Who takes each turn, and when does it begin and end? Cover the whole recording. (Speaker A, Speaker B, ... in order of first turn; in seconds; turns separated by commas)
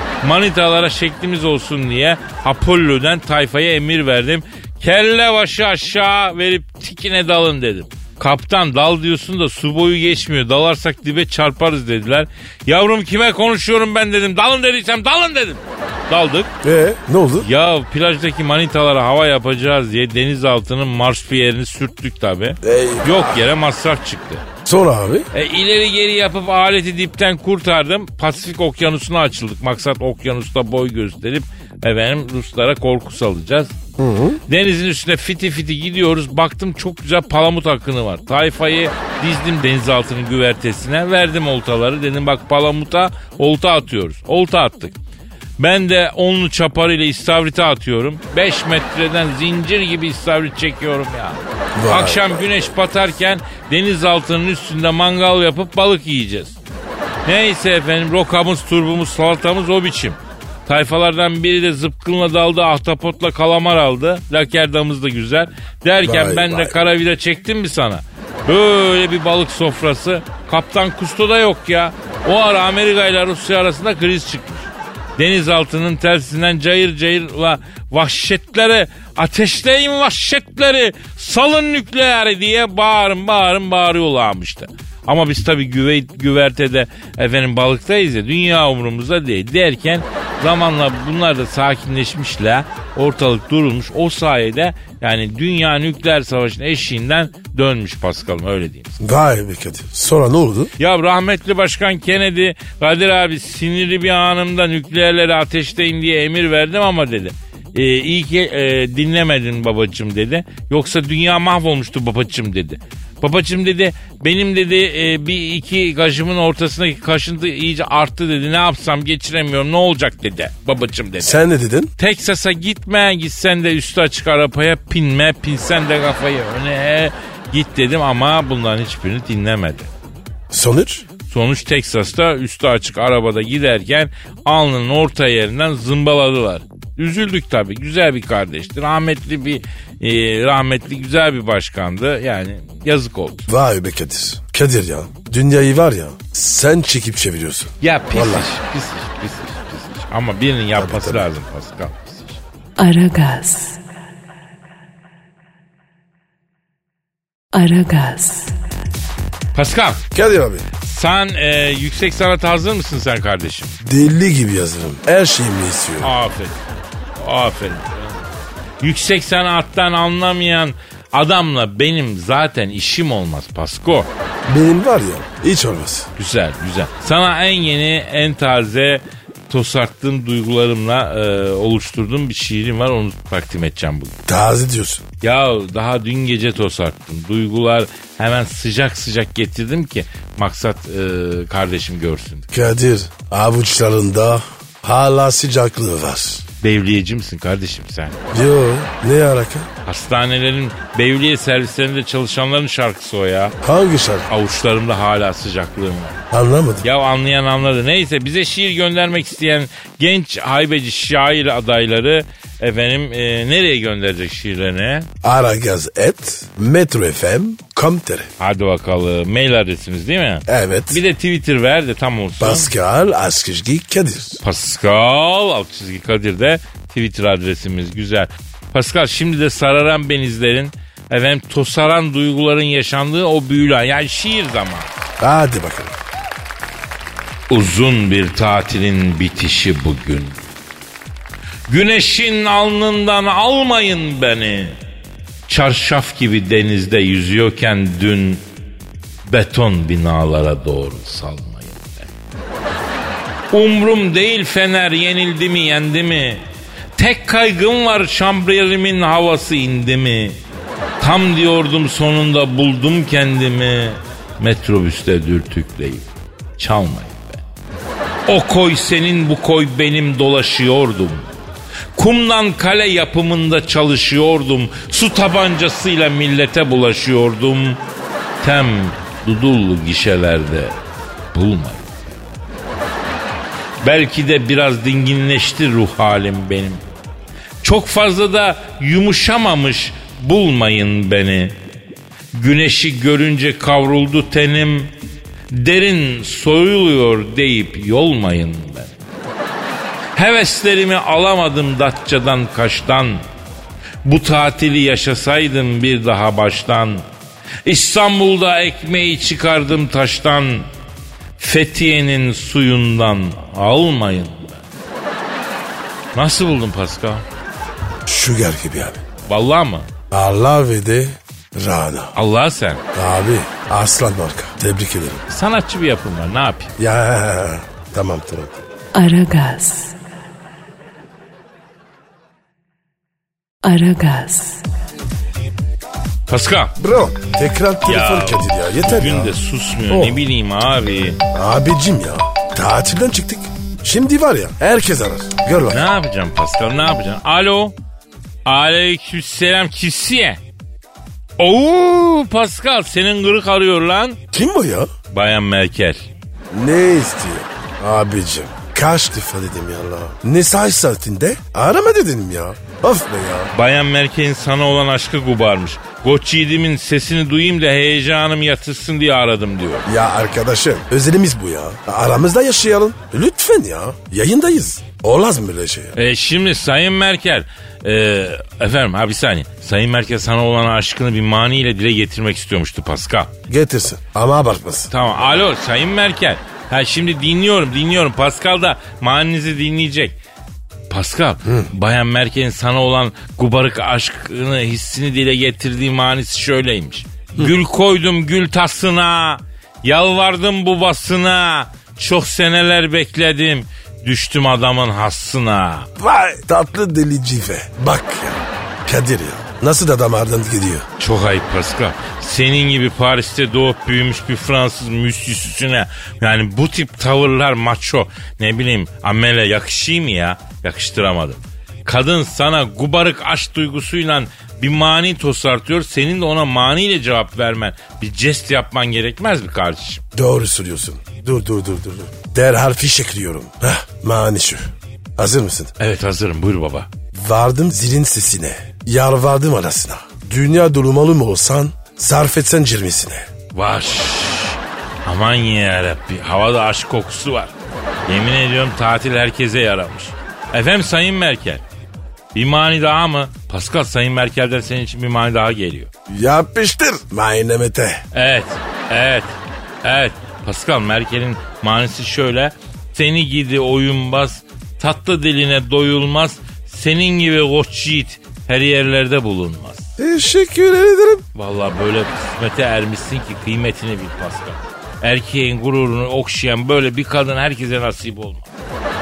Speaker A: 0.2-16.5, Speaker B: 16.6-17.5, Speaker A: 17.4-24.4, Speaker B: 22.6-23.4, Speaker B: 24.6-25.3, Speaker A: 25.3-33.8, Speaker B: 34.0-34.4, Speaker A: 34.5-45.0, Speaker A: 45.6-56.6, Speaker B: 51.8-52.7, Speaker A: 57.3-99.0, Speaker B: 66.0-66.8, Speaker B: 99.0-100.7, Speaker A: 100.8-121.4, Speaker B: 121.2-121.9, Speaker A: 122.0-129.9, Speaker B: 130.5-131.1, Speaker A: 131.3-143.5, Speaker B: 143.5-148.5, Speaker A: 147.8-152.4, Speaker B: 150.8-151.3, Speaker C: 152.8-153.8, Speaker C: 157.5-158.6, Speaker A: 159.6-160.0, Speaker B: 160.1-160.7, Speaker A: 160.8-163.8, Speaker B: 163.8-166.1, Speaker A: 166.0-166.6, Speaker A: 167.2-168.2, Speaker A: 168.8-174.1, Speaker B: 174.5-176.1, Speaker A: 176.2-184.2, Speaker B: 184.3-185.0, Speaker A: 185.2-192.5, Speaker B: 192.5-196.4, Speaker A: 196.6-198.2, Speaker B: 198.3-199.7, Speaker A: 199.8-203.6, Speaker B: 203.6-204.3, Speaker A: 204.3-206.2, Speaker B: 206.3-206.9, Speaker A: 206.8-215.1, Speaker B: 215.2-218.3, Speaker A: 218.4-222.7, Speaker B: 220.5-221.0, Speaker B: 222.4-224.4, Speaker A: 224.4-234.9, Speaker B: 235.2-236.0, Speaker A: 237.5-240.4, Speaker A: 241.7-244.8, Speaker A: 245.5-248.4, Speaker A: 249.2-252.1, Speaker A: 253.5-260.4, Speaker A: 261.0-267.4, Speaker A: 268.3-271.4, Speaker A: 271.9-277.8, Speaker A: 278.4-280.8, Speaker A: 281.3-282.2, Speaker A: 283.8-286.8, Speaker A: 287.6-291.6, Speaker A: 292.3-294.9, Speaker A: 295.5-298.9, Speaker A: 300.1-303.2, Speaker A: 304.0-307.1, Speaker A: 307.6-310.7, Speaker A: 311.4-314.6, Speaker A: 316.1-317.2, Speaker B: 318.1-319.0, Speaker A: 319.3-319.9, Speaker B: 320.1-322.1, Speaker A: 322.1-322.8, Speaker B: 322.9-325.2, Speaker A: 325.3-326.7, Speaker B: 326.8-328.6, Speaker C: 328.9-330.0, Speaker C: 333.6-334.7, Speaker A: 336.3-336.8, Speaker B: 336.8-339.4, Speaker A: 337.9-341.2, Speaker B: 339.9-340.2, Speaker B: 341.3-345.9, Speaker A: 345.7-347.8, Speaker A: 348.4-350.4, Speaker A: 351.4-354.2, Speaker B: 354.3-354.9, Speaker A: 355.1-356.0, Speaker B: 356.5-363.5, Speaker A: 363.5-369.9, Speaker B: 369.9-376.0, Speaker A: 375.9-383.3, Speaker B: 383.5-384.9, Speaker A: 384.9-390.2, Speaker A: 390.9-405.9, Speaker B: 406.0-410.9, Speaker A: 411.0-430.0, Speaker B: 430.1-435.7, Speaker A: 435.8-436.9, Speaker B: 437.1-443.3, Speaker A: 443.5-447.5, Speaker A: 448.1-451.6, Speaker A: 452.4-455.9, Speaker B: 456.1-458.0, Speaker A: 458.1-469.9, Speaker B: 470.0-471.2, Speaker A: 471.4-478.5